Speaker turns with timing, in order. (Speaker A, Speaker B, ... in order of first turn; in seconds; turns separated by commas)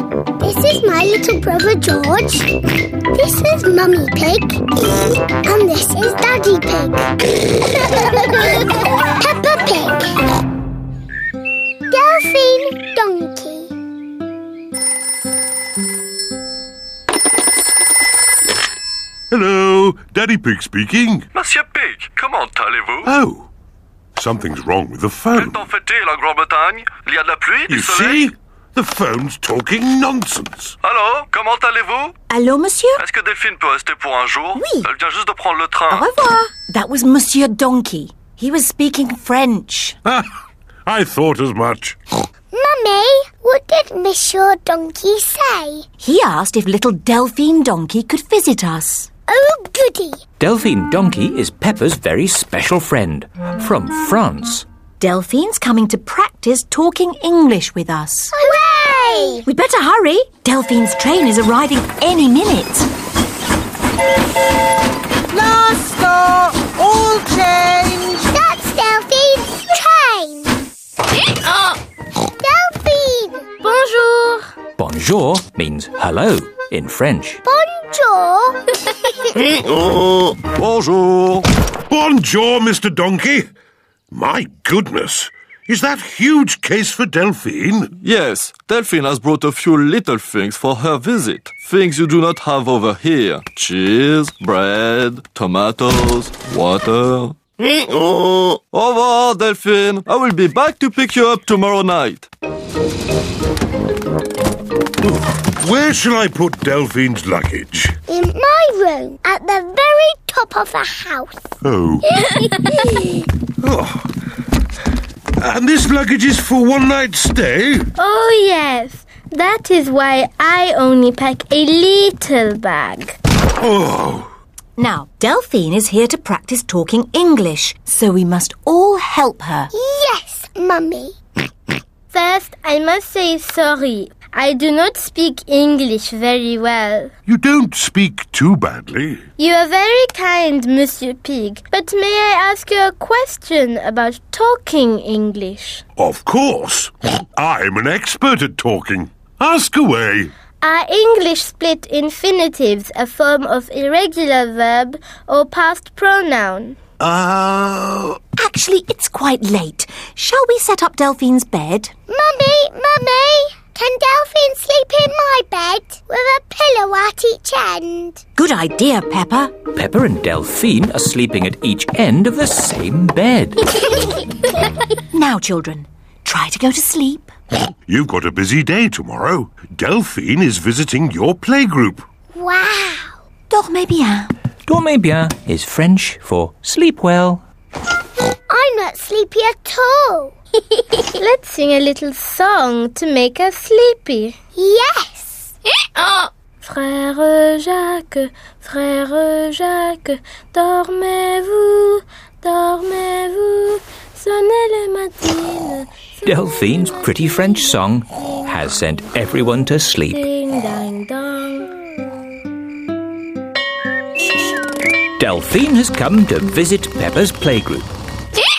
Speaker A: 0.4-2.5, Speaker A: 3.1-4.6, Speaker A: 5.4-7.1, Speaker A: 7.8-8.5, Speaker A: 9.2-10.2, Speaker A: 11.9-13.7, Speaker B: 19.3-21.3, Speaker C: 21.4-23.1, Speaker B: 23.1-23.5, Speaker B: 24.2-25.6, Speaker C: 25.3-28.3, Speaker B: 27.7-30.8, Speaker C: 30.8-32.1, Speaker D: 32.3-33.0, Speaker C: 33.0-36.1, Speaker D: 34.5-34.9, Speaker D: 35.9-40.0, Speaker B: 40.0-40.3, Speaker B: 40.9-42.0, Speaker A: 42.5-45.9, Speaker D: 46.0-49.1, Speaker A: 49.3-50.2, Speaker E: 50.4-54.6, Speaker D: 55.0-58.4, Speaker A: 58.3-59.4, Speaker D: 59.4-62.9, Speaker D: 65.8-68.0, Speaker A: 68.0-70.5, Speaker A: 72.4-73.5, Speaker F: 73.6-74.5, Speaker E: 74.8-77.4, Speaker A: 77.4-78.6, Speaker C: 80.4-81.5, Speaker B: 81.9-83.5, Speaker B: 84.1-87.9, Speaker C: 88.0-97.4, Speaker C: 98.7-102.3, Speaker B: 105.0-108.0, Speaker A: 108.1-111.4, Speaker B: 111.6-112.0, Speaker A: 112.2-113.1, Speaker B: 113.6-114.1, Speaker B: 115.4-117.9, Speaker F: 118.0-123.2, Speaker B: 123.6-124.3, Speaker D: 124.8-129.7, Speaker A: 129.7-131.1, Speaker F: 132.1-137.1, Speaker B: 137.3-139.2, Speaker F: 139.4-145.8, Speaker B: 146.0-150.3, Speaker F: 150.6-156.8, Speaker B: 157.0-158.2, Speaker D: 158.4-161.9, Speaker A: 162.1-168.2, Speaker D: 168.4-169.6, Speaker E: 169.7-173.6, Speaker D: 175.1-177.3, Speaker B: 177.9-182.0, Speaker A: 182.3-183.2, Speaker D: 183.5-184.3, Speaker E: 184.7-187.4, Speaker A: 188.5-190.3, Speaker F: 191.2-194.3, Speaker A: 194.6-195.5, Speaker F: 196.0-209.1, Speaker E: 206.2-210.2, Speaker F: 210.1-211.8, Speaker E: 215.2-217.9